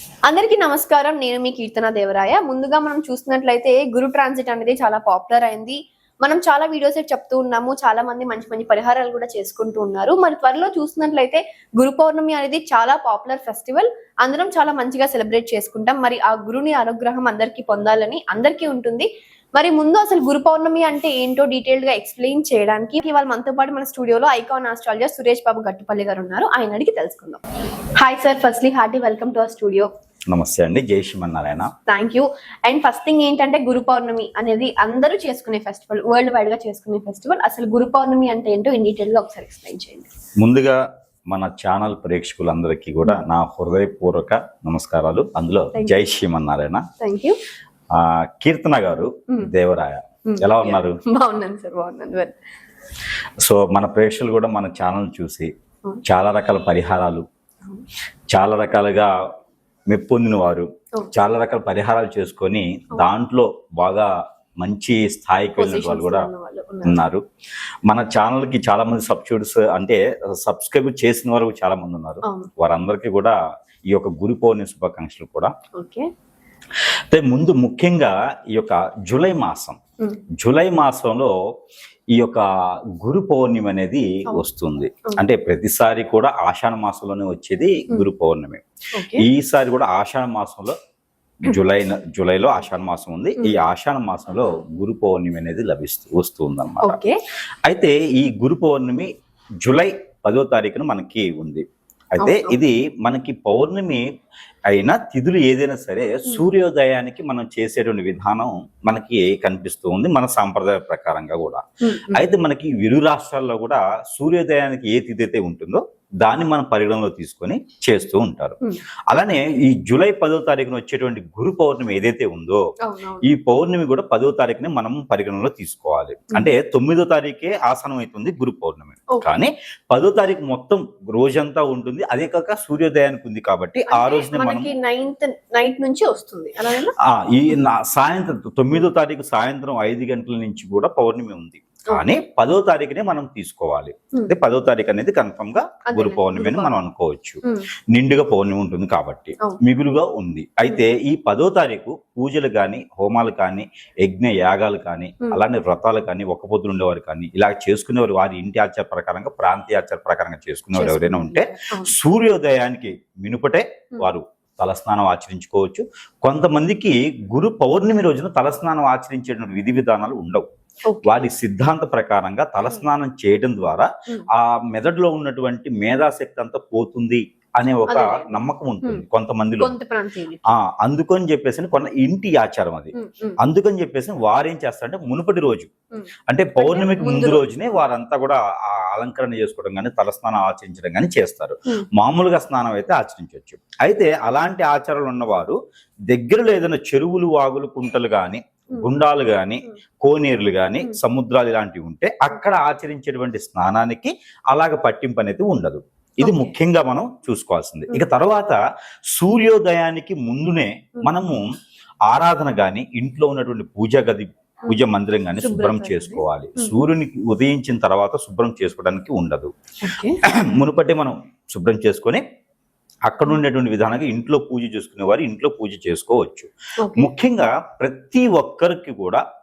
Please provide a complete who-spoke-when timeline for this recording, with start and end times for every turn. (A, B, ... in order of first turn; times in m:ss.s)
0:00.3-0:27.4 A
0:28.0-0:29.9 A
0:30.3-0:31.7 B
0:31.9-0:40.1 A
0:40.4-0:40.8 B
0:41.3-0:46.8 B
0:45.7-0:46.0 A
0:47.0-0:47.4 A
0:48.0-0:51.0 B
0:50.3-0:52.4 A
0:53.4-0:55.5 B
0:56.0-0:57.2 B
0:58.3-0:59.1 B
0:59.9-1:04.1 B
1:04.6-1:06.3 B
1:05.6-1:07.0 A
1:06.8-1:07.2 B
1:07.9-1:13.4 B
1:12.2-1:12.5 A
1:13.9-1:15.5 B
1:15.8-1:16.1 A
1:17.1-1:19.8 B
1:20.4-1:21.3 B
1:22.2-1:22.4 B
1:23.0-1:30.8 B
1:29.0-1:29.3 A
1:31.4-1:37.0 B
1:36.8-1:37.2 A
1:37.6-1:39.1 B
1:39.6-1:41.6 B
1:42.2-1:44.0 B
1:42.2-1:42.6 A
1:44.7-1:58.6 B
1:51.8-1:52.3 A
1:59.1-2:02.6 B
2:02.8-2:03.3 A
2:03.2-2:14.7 B
2:09.1-2:09.4 A
2:13.9-2:17.0 A
2:17.1-2:27.4 B
2:25.9-2:26.8 A
2:27.9-2:50.4 B
2:40.7-2:41.9 A
2:50.9-2:51.3 A
2:51.0-2:59.7 B
2:57.9-2:58.3 A
2:59.6-3:00.4 A
3:00.6-3:05.7 B
3:02.9-3:03.4 A
3:05.9-3:07.6 A
3:06.3-3:15.6 B
3:16.1-3:28.6 B
3:26.2-3:26.6 A
3:29.1-3:31.4 B
3:32.1-3:39.5 B
3:35.4-3:36.8 A
3:39.8-3:40.2 A
3:40.4-3:42.2 B
3:43.1-3:49.2 B
3:46.8-3:47.1 A